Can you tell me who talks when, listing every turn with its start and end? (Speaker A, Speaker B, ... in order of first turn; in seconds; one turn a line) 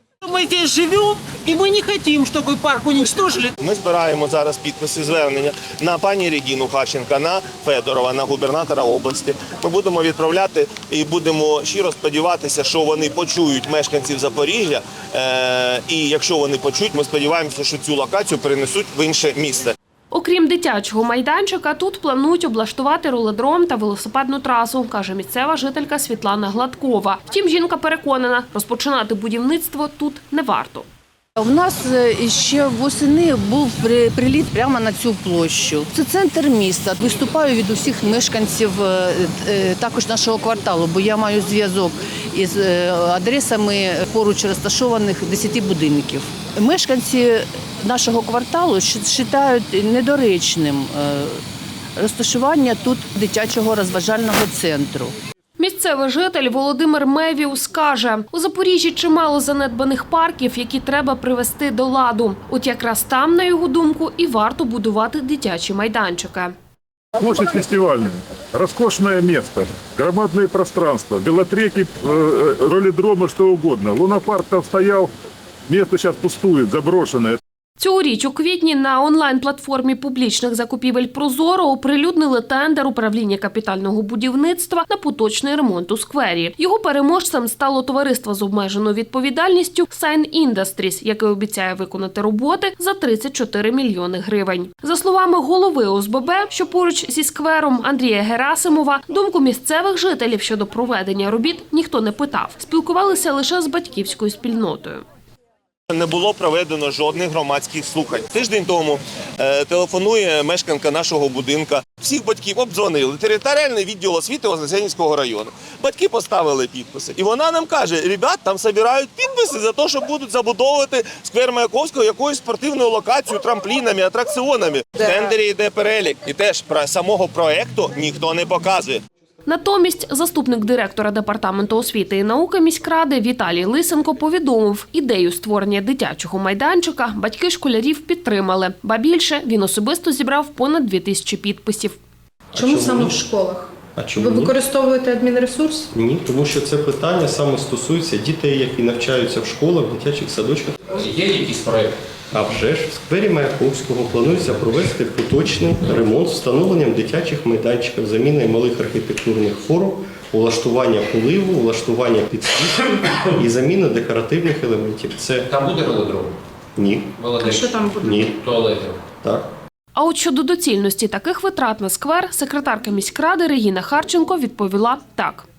Speaker A: 0.2-3.5
Speaker B: 3.6-19.7
Speaker C: 20.1-30.9
Speaker D: 31.4-51.4
Speaker D: 52.0-55.1
Speaker C: 55.6-66.5
Speaker E: 67.2-75.1
Speaker E: 75.7-77.4
Speaker C: 77.8-105.0
Speaker B: 105.9-129.0
Speaker C: 129.4-142.0
Speaker F: 142.5-143.2
Speaker G: 142.5-145.9
Speaker F: 143.9-144.6
Speaker F: 145.9-150.9
Speaker H: 150.9-151.9
Speaker F: 152.3-165.5
Speaker H: 165.5-166.3
Speaker F: 166.8-168.4
Speaker H: 167.2-169.0
Speaker G: 167.4-168.2
Speaker F: 169.2-169.5
Speaker C: 169.9-175.4